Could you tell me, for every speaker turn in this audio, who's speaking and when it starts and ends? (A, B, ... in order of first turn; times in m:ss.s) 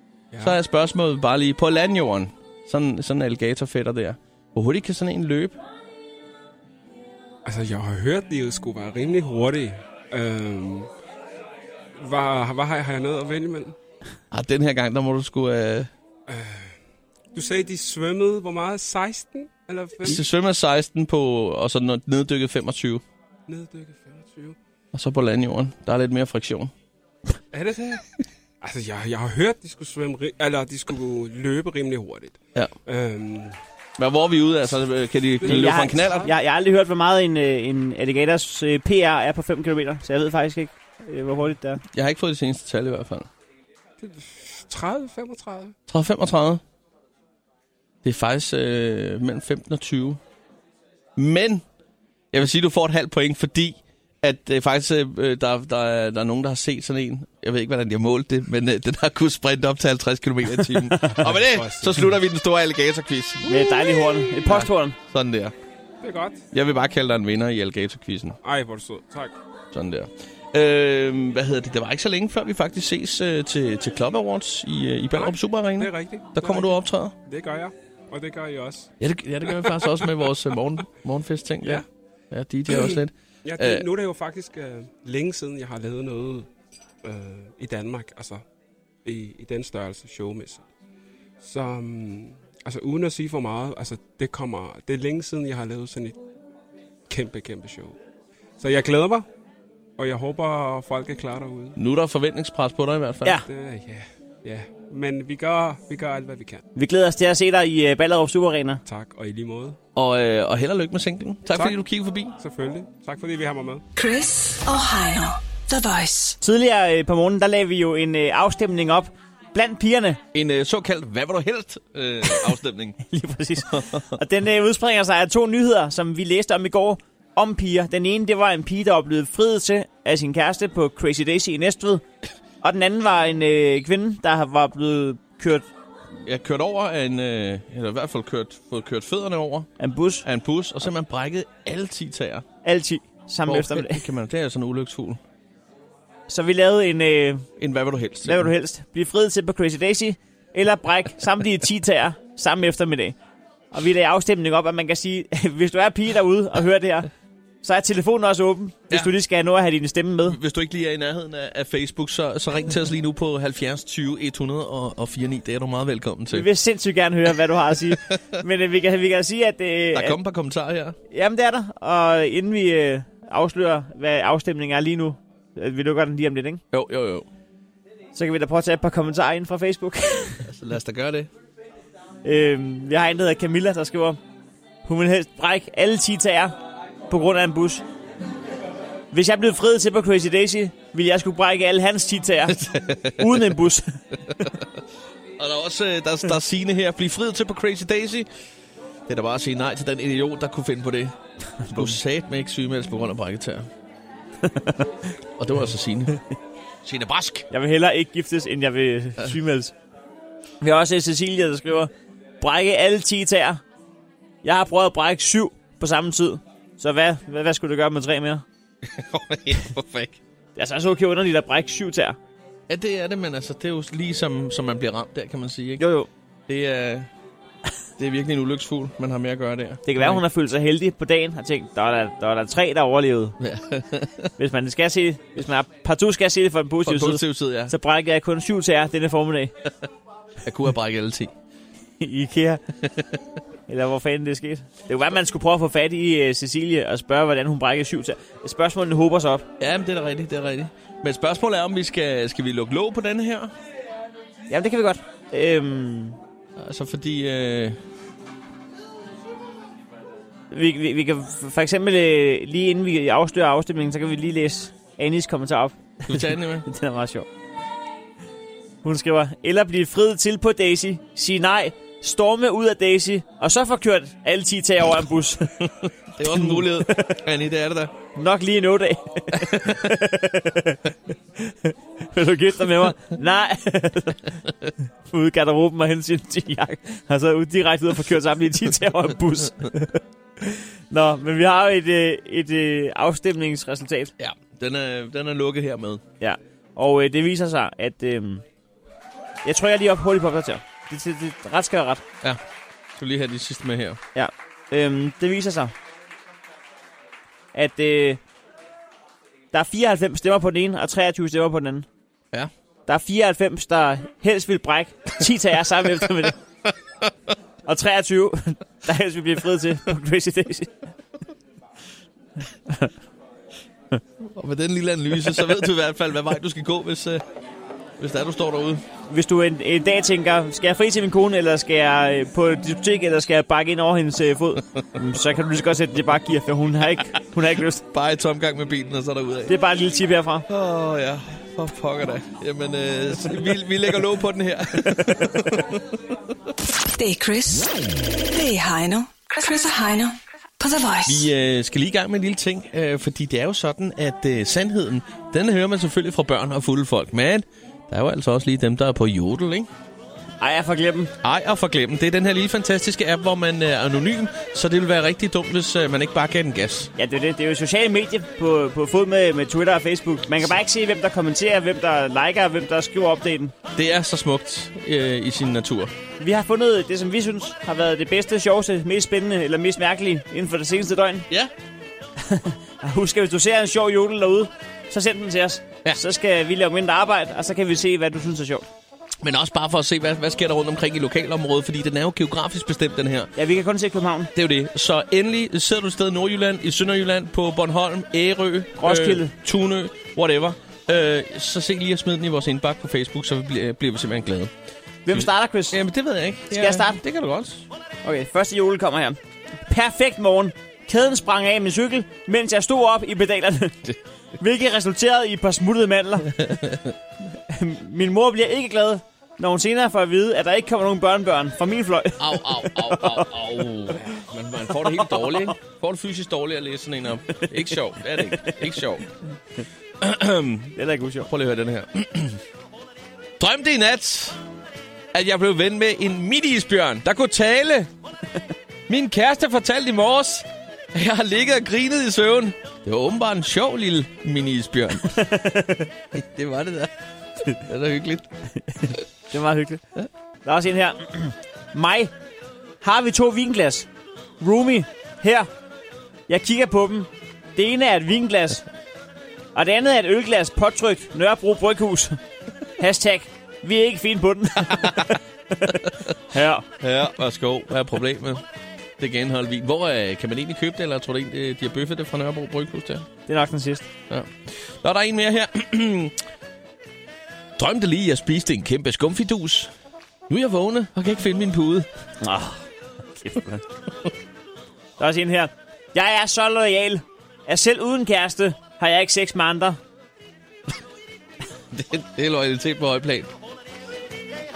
0:00.3-0:00.6 A
0:00.4-0:05.6 B
0:07.4-0:10.9 A
0:12.0-0:13.8 A
0:14.3-0:15.9 B
0:16.3-0:16.8 A
0:17.3-0:20.3 A
0:20.0-0:23.0 B
0:23.5-0:24.6 A
0:24.9-0:26.7 B
0:27.5-0:28.0 A
0:28.6-0:33.6 A
0:34.0-0:36.3 B
0:35.4-0:36.3 A
0:35.4-0:41.8 C
0:41.9-0:43.3 B
0:44.0-0:45.8 A
0:45.9-0:46.6 B
0:48.0-0:50.2 B
0:51.2-0:51.6 B
0:52.3-1:03.4 B
1:01.2-1:02.2 A
1:03.4-1:05.0 C
1:04.4-1:05.5 B
1:06.0-1:06.4 A
1:06.5-1:08.4 B
1:08.4-1:09.4 A
1:09.7-1:17.1 B
1:15.1-1:18.9 A
1:19.0-1:23.9 B
1:19.5-1:20.0 A
1:22.7-1:26.5 A
1:27.0-1:28.4 A
1:29.0-1:30.7 A
1:31.4-1:36.2 A
1:37.1-1:38.0 A
1:38.6-1:39.2 A
1:40.0-1:41.8 A
1:41.8-1:43.4 B
1:43.4-1:46.6 A
1:46.8-1:48.8 C
1:48.8-1:49.8 A
1:50.0-1:52.4 B
1:51.5-1:51.8 A
1:52.4-1:53.9 A
1:53.9-1:56.4 D
1:56.4-2:00.2 C
2:00.3-2:03.0 B
2:03.1-2:12.0 C
2:03.7-2:04.1 B
2:12.6-2:15.6 C
2:16.2-2:19.7 B
2:19.8-2:20.3 C
2:20.2-2:22.4 B
2:22.6-2:24.0 C
2:23.4-2:25.2 B
2:26.3-2:27.4 C
2:27.6-2:28.5 B
2:28.2-2:33.2 C
2:33.7-2:37.1 C
2:37.6-2:40.4 C
2:40.3-2:46.5 B
2:46.3-2:50.2 C
2:47.9-2:48.2 B
2:49.9-2:51.0 B
2:51.1-2:56.6 C
2:56.7-2:57.3 B
2:58.1-3:00.4 C
3:00.4-3:01.3 B
3:02.2-3:04.2 C
3:04.8-3:06.6 C
3:07.1-3:07.8 C
3:09.1-3:14.0 C
3:12.5-3:13.4 B
3:15.4-3:18.3 B
3:19.1-3:21.1 B
3:21.6-3:22.0 C
3:21.7-3:23.7 B
3:24.4-3:24.9 C
3:25.4-3:26.2 B
3:26.8-3:27.5 B
3:27.5-3:29.7 C
3:30.6-3:33.6 C
3:34.4-3:38.4 C
3:38.8-3:40.2 B
3:40.6-3:42.2 C
3:42.7-3:45.9 B
3:45.8-3:46.1 C
3:46.5-3:47.1 B
3:48.0-3:50.2 B
3:49.9-3:53.4 C
3:53.4-3:54.3 B
3:54.4-3:59.5 C
3:56.8-3:57.7 B
4:00.4-4:01.3 B
4:02.0-4:02.6 C
4:02.8-4:03.2 B
4:03.7-4:09.5 C
4:09.6-4:13.5 B
4:14.5-4:16.2 C
4:16.6-4:17.8 B
4:20.5-4:27.3 C
4:26.1-4:26.6 B
4:28.8-4:35.6 C
4:35.9-4:37.9 B
4:36.3-4:37.2 C
4:38.1-4:40.8 C
4:39.3-4:39.8 B
4:41.4-4:44.3 C
4:45.0-4:54.1 C
4:54.2-4:56.0 B
4:56.2-4:58.4 C
4:59.4-5:02.0 C
5:02.9-5:04.0 B
5:04.1-5:05.7 C
5:07.5-5:08.2 C
5:09.5-5:11.9 C
5:12.9-5:16.4 C
5:17.6-5:20.7 C
5:24.2-5:27.2 B
5:28.0-5:28.8 B
5:29.1-5:37.8 C
5:37.9-5:39.5 B
5:39.5-5:40.4 C
5:40.5-5:45.8 B
5:47.0-5:47.7 D
5:48.3-5:51.3 D
5:51.0-5:59.7 B
6:00.4-6:01.1 C
6:01.2-6:06.9 B
6:07.0-6:13.5 C
6:13.8-6:15.9 B
6:16.2-6:21.3 C
6:22.2-6:28.7 C
6:29.2-6:33.3 B
6:33.4-6:34.3 C
6:34.3-6:44.5 B
6:38.8-6:39.3 C
6:45.0-6:45.8 C
6:45.1-6:47.6 B
6:46.5-6:47.0 C
6:48.0-6:53.8 C
6:54.4-6:56.3 C
6:56.3-6:56.9 B
6:57.3-7:03.3 C
7:02.2-7:09.1 B
7:04.7-7:05.5 C
7:07.4-7:08.6 C
7:10.0-7:10.7 B
7:10.7-7:11.3 C
7:11.3-7:12.4 B
7:13.4-7:14.4 B
7:15.1-7:17.9 B
7:18.9-7:25.1 B
7:25.1-7:25.9 C
7:26.1-7:26.9 B
7:27.5-7:28.3 B
7:28.7-7:29.8 C
7:30.4-7:32.1 C
7:32.8-7:33.9 C
7:34.4-7:35.5 C
7:36.3-7:38.6 C
7:39.6-7:42.2 C
7:42.8-7:45.8 C
7:45.8-7:46.1 B
7:46.3-7:46.6 C
7:46.8-7:48.4 B
7:49.0-7:53.1 B
7:53.3-7:53.9 C
7:54.1-7:56.2 B
7:57.6-7:59.7 B
8:00.3-8:01.9 B
8:02.2-8:03.6 C
8:05.0-8:09.8 C
8:11.7-8:13.3 B